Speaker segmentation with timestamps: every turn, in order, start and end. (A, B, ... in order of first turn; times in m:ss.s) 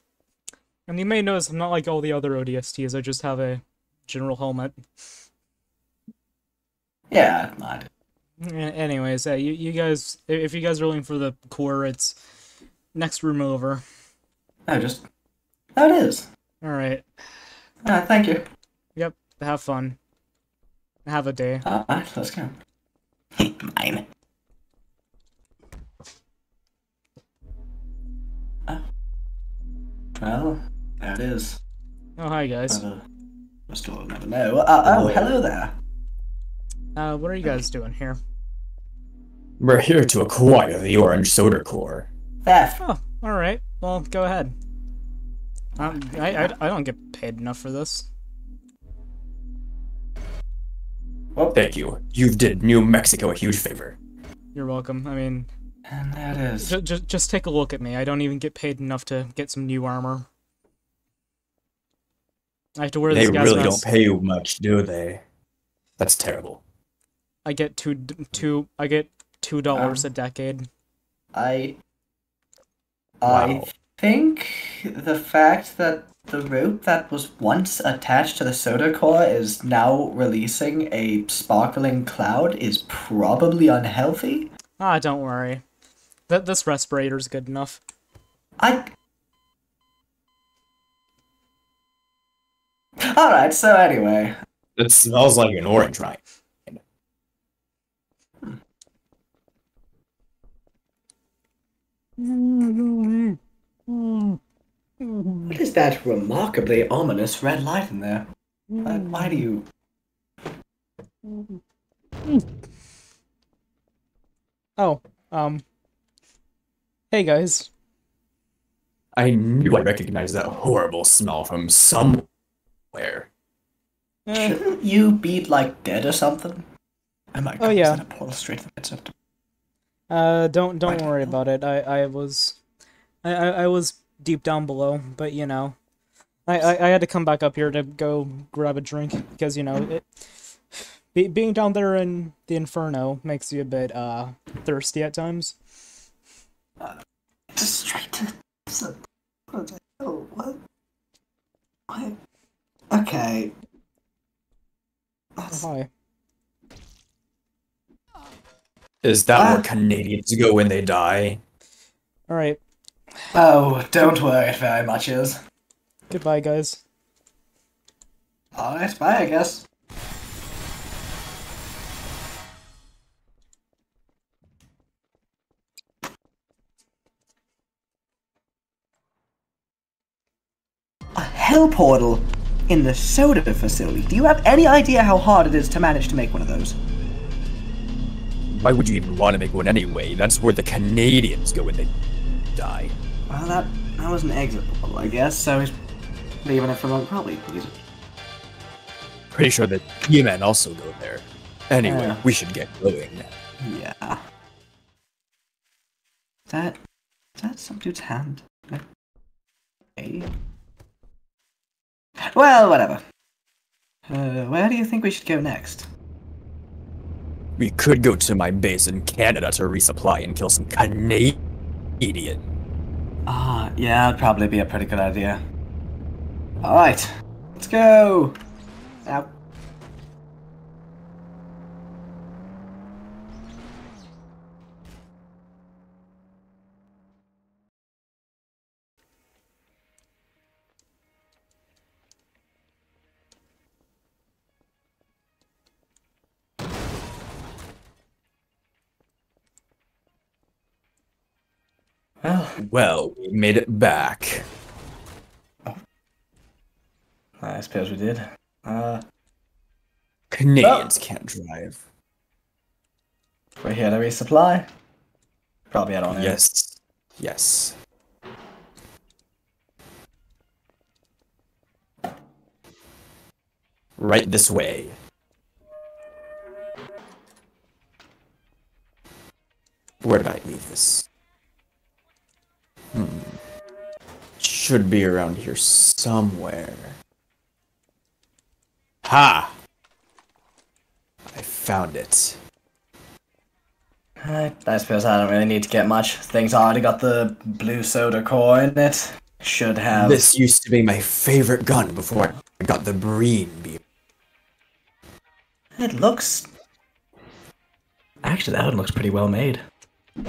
0:00.9-0:04.8 A
0:07.1-0:07.9 B
0:08.4-0:12.2 A
0:12.9-0:13.8 A
0:14.7-0:15.0 B
0:15.8-0:16.3 B
0:16.6-0:17.1 A
0:17.8-0:18.5 B
0:19.0-0:20.0 A
0:21.0-0:21.6 A
0:21.6-0:22.5 B
0:23.4-0:24.0 B
0:30.2-0:31.6 B
0:32.2-0:32.8 A
0:32.7-0:33.0 B
0:33.7-0:35.8 B
0:34.8-0:35.4 C
0:37.0-0:38.2 A
0:39.6-0:42.1 C
0:42.4-0:42.8 B
0:42.8-0:44.5 A
0:45.8-0:46.5 B
0:45.8-0:48.1 A
0:51.4-0:51.6 B
0:51.6-0:54.0 C
0:54.6-0:55.5 A
0:55.9-0:56.7 B
0:56.6-1:00.3 A
1:02.8-1:03.9 A
1:03.1-1:05.2 C
1:06.0-1:06.6 C
1:07.4-1:10.7 A
1:09.7-1:10.1 B
1:11.3-1:11.8 B
1:13.2-1:24.5 B
1:13.2-1:13.7 C
1:24.8-1:25.6 A
1:26.3-1:27.8 A
1:28.6-1:28.9 B
1:33.0-1:34.4 B
1:34.8-1:36.8 C
1:42.2-1:43.4 A
1:43.9-1:44.4 A
1:45.0-1:45.6 A
1:45.5-1:48.3 B
1:48.7-1:49.3 A
1:48.8-1:49.7 B
1:54.8-1:55.6 A
1:57.1-1:57.7 A
1:59.2-2:02.3 C
2:02.9-2:03.3 C
2:04.3-2:04.6 A
2:04.3-2:06.7 B
2:07.3-2:09.1 B
2:07.6-2:08.0 A
2:10.1-2:12.6 A
2:10.9-2:11.4 B
2:13.2-2:15.8 A
2:16.5-2:20.0 A
2:20.8-2:25.6 A
2:27.6-2:29.0 B
2:29.5-2:30.6 B
2:31.9-2:32.2 B
2:32.9-2:33.5 B
2:35.4-2:35.7 B
2:35.5-2:35.9 A
2:39.0-2:41.4 C
2:39.4-2:39.6 B
2:42.3-2:42.6 A
2:43.3-2:45.4 B
2:46.1-2:46.8 A
2:48.6-2:49.6 B
3:01.2-3:06.8 B
3:08.5-3:11.9 C
3:12.6-3:13.0 C
3:13.3-3:15.8 B
3:16.4-3:17.8 B
3:19.3-3:23.3 C
3:21.8-3:22.2 B
3:23.6-3:24.2 B
3:26.5-3:26.8 B
3:27.4-3:28.8 B
3:30.0-3:30.3 B
3:32.2-3:33.0 B
3:34.1-3:35.9 B
3:37.6-3:41.4 C
3:42.0-3:42.4 C
3:43.3-3:45.4 B
3:46.6-3:48.4 B
3:49.0-3:49.3 B
4:12.2-4:12.6 B
4:12.6-4:14.5 C
4:17.4-4:19.0 B
4:20.3-4:21.8 C
4:20.6-4:20.9 B
4:23.6-4:24.7 B
4:25.7-4:26.4 B
4:26.1-4:27.8 C
4:34.0-4:35.0 C
4:40.0-4:41.1 C
4:42.9-4:43.4 C
4:44.4-4:47.0 C
4:49.0-4:49.5 C
4:51.3-4:52.4 C
4:54.2-5:00.2 B
4:59.9-5:03.8 C
5:05.8-5:06.5 B
5:08.2-5:09.6 B